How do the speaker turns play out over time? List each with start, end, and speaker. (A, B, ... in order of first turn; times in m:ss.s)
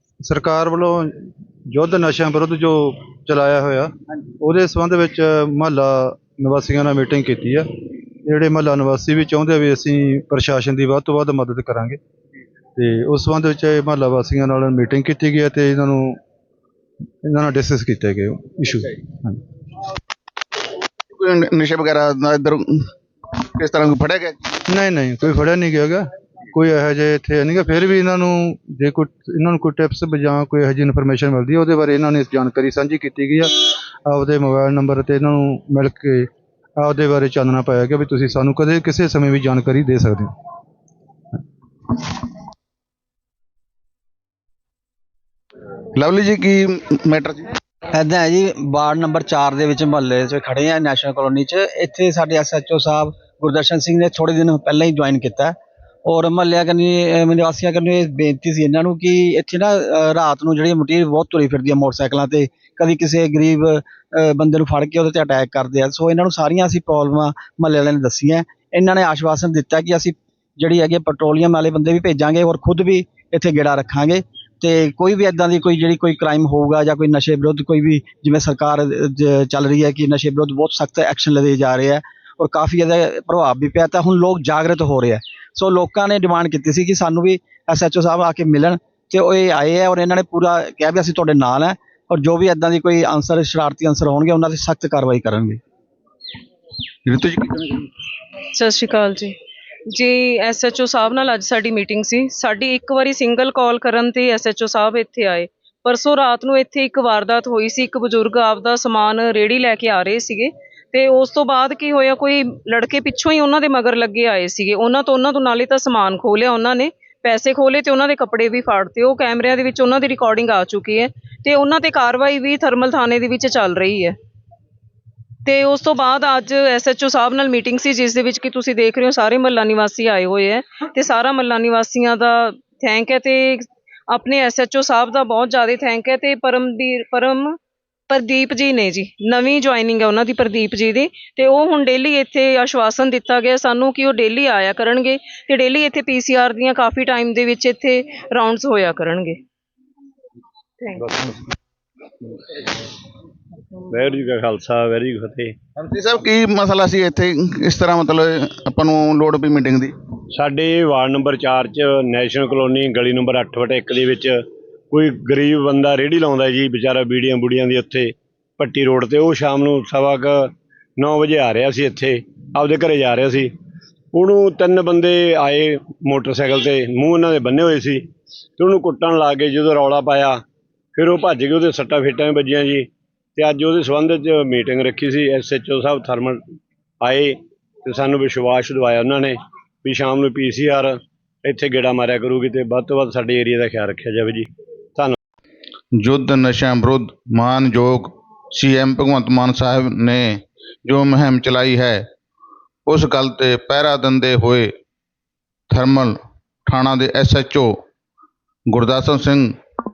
0:00.2-0:01.1 A
0:01.7-0:07.7 A
0:08.2-0:12.0 A
0:12.8-0:16.2 A
0:17.2-0:19.4 A
0:21.1-0:22.9 B
0:23.5-0:24.4 B
0:24.7-0:40.3 A
0:46.0-0:47.5 B
0:47.9-1:35.6 C
1:37.1-1:37.9 B
1:38.5-1:39.3 D
1:39.9-2:04.1 D
2:05.4-2:17.5 D
2:18.1-2:29.4 D
2:31.0-2:31.4 E
2:33.9-2:35.6 E
2:35.8-2:39.9 B
2:40.3-2:44.4 E
2:44.9-2:53.5 E
2:54.1-2:58.0 E
2:58.6-3:00.4 E
3:01.0-3:06.4 E
3:07.0-3:15.2 E
3:16.0-3:22.0 B
3:22.9-3:24.7 B
3:25.7-3:26.2 B
3:26.7-3:27.7 B
3:28.7-3:29.5 B